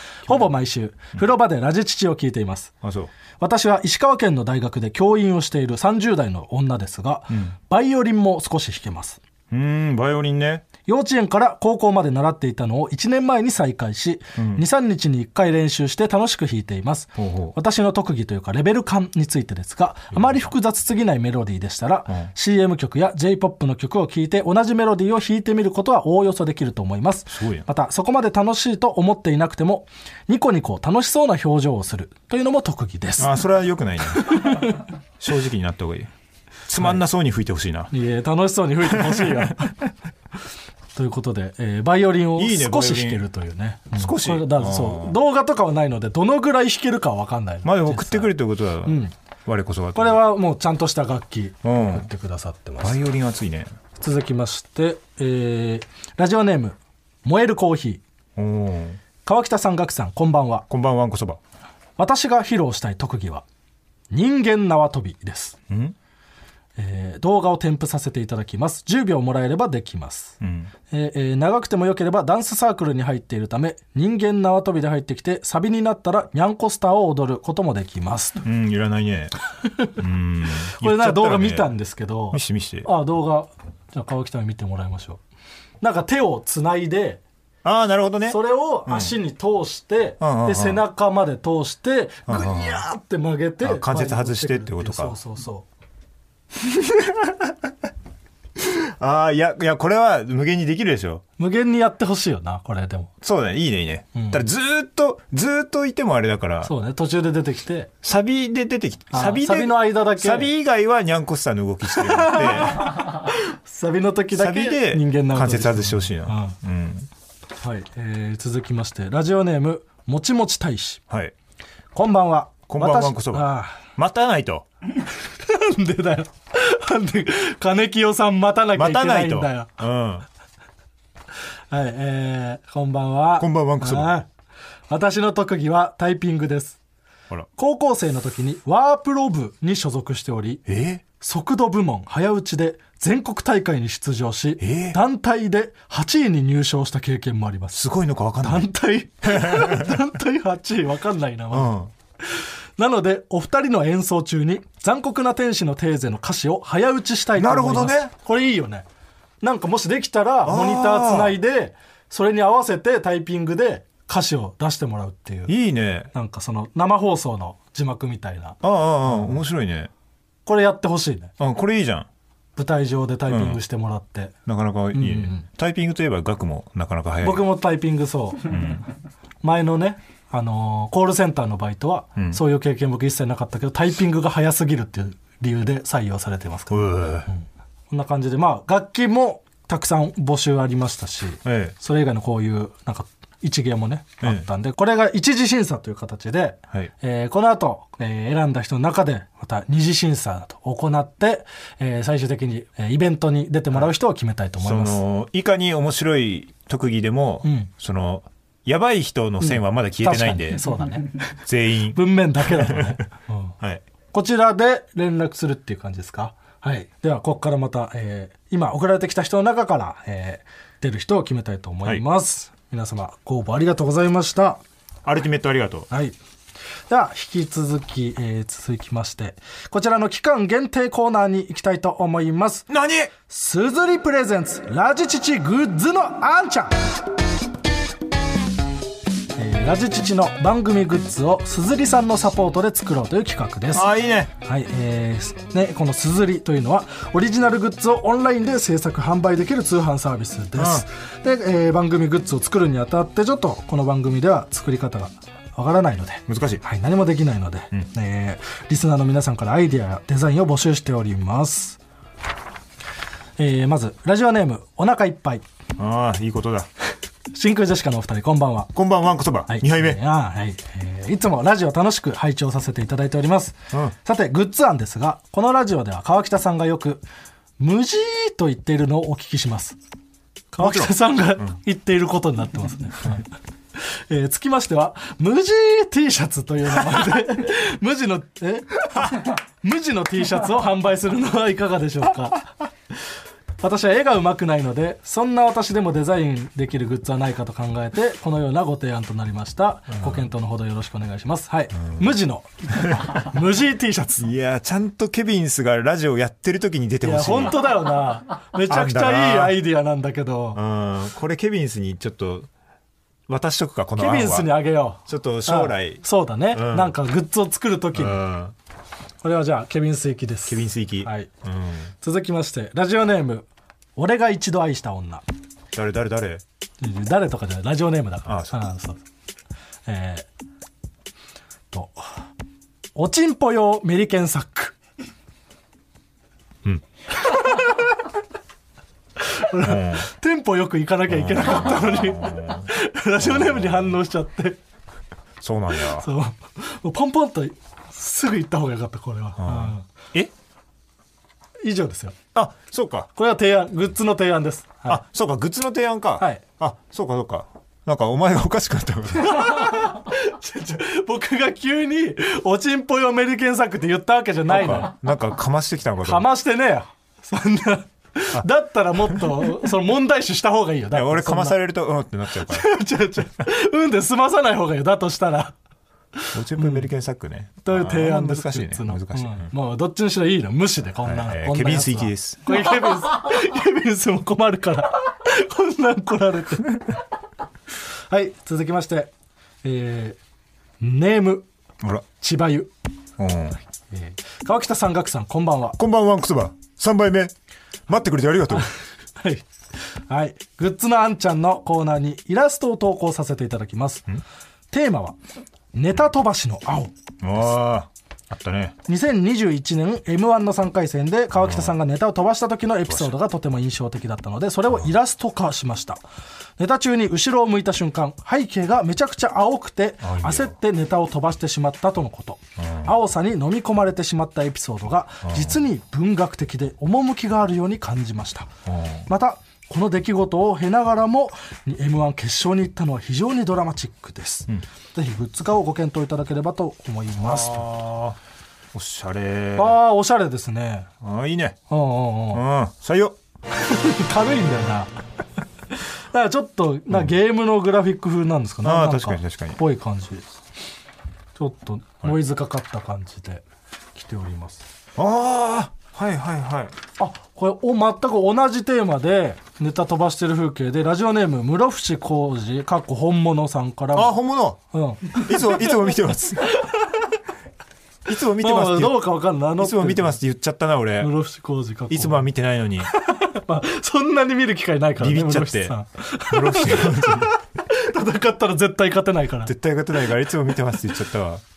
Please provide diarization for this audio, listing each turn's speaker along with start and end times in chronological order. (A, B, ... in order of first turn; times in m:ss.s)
0:00.3-0:02.7 A
0:02.8-0:03.1 B
0:03.4-0:09.2 A
0:09.5-0:10.7 B
0:10.9-0:33.4 A
0:14.4-0:14.6 B
0:17.2-0:17.5 B
0:27.3-0:27.6 B
0:33.2-0:36.1 B
0:34.1-0:34.9 A
0:36.7-0:37.9 B
0:37.9-0:39.8 A
0:38.9-0:39.5 B
0:41.0-0:48.3 A
0:42.4-0:43.2 B
0:44.0-0:45.2 B
0:47.6-0:50.2 B
0:48.8-0:49.1 A
0:50.0-0:53.0 A
0:51.6-0:52.1 B
0:52.8-0:53.7 B
0:54.0-0:58.0 A
0:58.4-0:59.0 B
0:59.2-1:00.7 A
1:00.7-1:01.4 B
1:02.0-1:03.4 A
1:04.1-1:05.6 A
1:05.7-1:06.0 B
1:06.8-1:10.4 A
1:10.4-1:10.7 B
1:10.9-1:18.4 A
1:18.4-1:19.4 B
1:19.7-1:19.9 A
1:20.0-1:21.7 B
1:20.8-1:25.2 A
1:22.3-1:22.9 B
1:25.8-1:27.2 A
1:27.6-1:29.1 B
1:28.3-1:35.7 A
1:30.2-1:30.8 B
1:32.3-1:32.8 B
1:33.6-1:35.2 B
1:36.6-1:37.6 B
1:38.6-1:41.2 B
1:41.4-1:43.1 A
1:43.2-1:46.7 B
1:44.2-1:44.4 A
1:46.6-1:47.9 A
1:48.0-1:53.1 B
1:49.1-1:50.5 A
1:51.9-1:56.6 A
1:54.3-1:57.1 B
1:57.6-2:01.0 A
2:01.1-2:01.3 B
2:01.9-2:03.8 A
2:02.7-2:04.7 B
2:05.2-2:09.8 A
2:08.8-2:10.3 B
2:11.7-2:14.3 A
2:13.4-2:14.2 B
2:14.9-2:16.8 A
2:17.6-2:20.6 A
2:20.7-2:21.0 B
2:21.2-2:27.8 A
2:24.6-2:25.0 B
2:27.7-2:28.7 B
2:28.4-2:38.9 A
2:29.2-2:30.0 B
2:31.5-2:31.9 B
2:37.4-2:38.1 B
2:39.4-2:45.5 A
2:40.4-2:41.4 B
2:45.5-2:46.1 B
2:46.1-2:49.4 A
2:48.6-2:49.9 B
2:50.5-2:51.3 A
2:51.4-2:52.1 B
2:52.6-2:54.3 A
2:53.3-2:53.6 B
2:54.5-2:57.4 B
2:54.9-2:55.4 A
2:57.2-2:58.6 A
2:58.5-2:58.8 B
2:59.4-3:25.0 A
3:06.7-3:07.3 B
3:11.4-3:11.8 B
3:24.6-3:30.7 B
3:27.4-3:27.7 A
3:29.4-3:31.2 A
3:31.5-3:33.0 B
3:31.9-3:33.5 A
3:34.1-3:44.6 A
3:45.0-3:45.9 B
3:45.9-3:46.2 A
3:46.9-3:52.7 A
3:52.7-3:53.1 B
3:53.3-3:56.8 A
3:59.4-4:21.8 A
4:03.7-4:04.3 B
4:10.6-4:10.8 B
4:16.3-4:16.6 B
4:23.4-4:25.4 A
4:25.8-4:26.7 B
4:27.3-4:28.7 A
4:28.8-4:30.0 B
4:29.5-4:37.0 A
4:37.6-4:39.8 A
4:40.5-4:43.3 A
4:40.6-4:41.5 B
4:43.8-4:52.5 A
4:53.6-5:04.3 A
5:00.0-5:00.3 B
5:02.8-5:03.2 B
5:04.2-5:07.6 B
5:07.0-5:10.6 A
5:08.7-5:09.6 B
5:10.5-5:12.5 B
5:13.3-5:14.5 B
5:14.0-5:18.2 A
5:15.1-5:17.0 B
5:18.0-5:18.5 B
5:19.2-5:21.3 A
5:20.5-5:21.9 B
5:22.0-5:25.2 A
5:25.7-5:26.4 B
5:26.8-5:29.0 A
5:28.3-5:28.6 B
5:29.9-5:30.3 A
5:31.7-5:32.1 A
5:33.0-5:34.8 A
5:37.2-5:38.0 A
5:39.2-5:44.6 A
5:39.6-5:40.1 B
5:41.1-5:42.7 B
5:43.2-5:43.9 B
5:45.4-5:46.1 B
5:45.9-5:49.8 A
5:49.4-5:50.3 B
5:51.6-5:52.2 A
5:52.3-5:53.1 B
5:53.2-5:55.0 A
5:54.9-5:59.8 B
5:59.2-6:04.9 A
6:04.5-6:06.3 B
6:06.0-6:11.6 A
6:10.9-6:12.7 B
6:12.4-6:15.6 A
6:16.2-6:16.9 A
6:16.3-6:19.5 B
6:17.6-6:26.9 A
6:21.0-6:22.4 B
6:28.1-6:29.1 A
6:29.6-6:30.2 A
6:30.8-6:31.5 A
6:32.2-6:32.7 A
6:33.2-6:33.6 B
6:33.9-6:35.8 A
6:35.8-6:37.3 B
6:37.9-6:38.7 B
6:38.5-6:39.5 A
6:40.1-6:44.1 A
6:44.7-6:45.2 A
6:45.7-6:46.9 A
6:47.2-6:48.8 B
6:48.9-6:56.0 A
6:51.4-6:51.8 B
6:52.9-6:53.1 B
6:56.6-7:08.5 A
7:00.0-7:00.5 B
7:02.6-7:02.9 B
7:05.3-7:05.6 B
7:08.7-7:09.0 B
7:09.1-7:17.7 A
7:17.2-7:18.2 B
7:18.7-7:19.8 B
7:19.6-7:20.9 A
7:21.0-7:21.6 B
7:21.7-7:22.4 A
7:22.3-7:23.2 B
7:23.5-7:24.9 A
7:25.7-7:30.3 A
7:28.6-7:29.6 B
7:31.4-7:34.6 A
7:35.0-7:36.7 B
7:37.0-7:44.2 A
7:44.0-7:44.6 B
7:44.7-7:45.7 A
7:45.1-7:46.6 B
7:46.5-7:47.1 A
7:48.1-7:49.1 B
7:48.4-7:50.2 A
7:49.6-7:51.1 B
7:51.0-7:52.2 A
7:51.9-7:52.9 B
7:52.8-7:59.5 A
7:55.0-7:55.8 B
7:56.3-7:57.4 B
7:59.5-8:01.4 B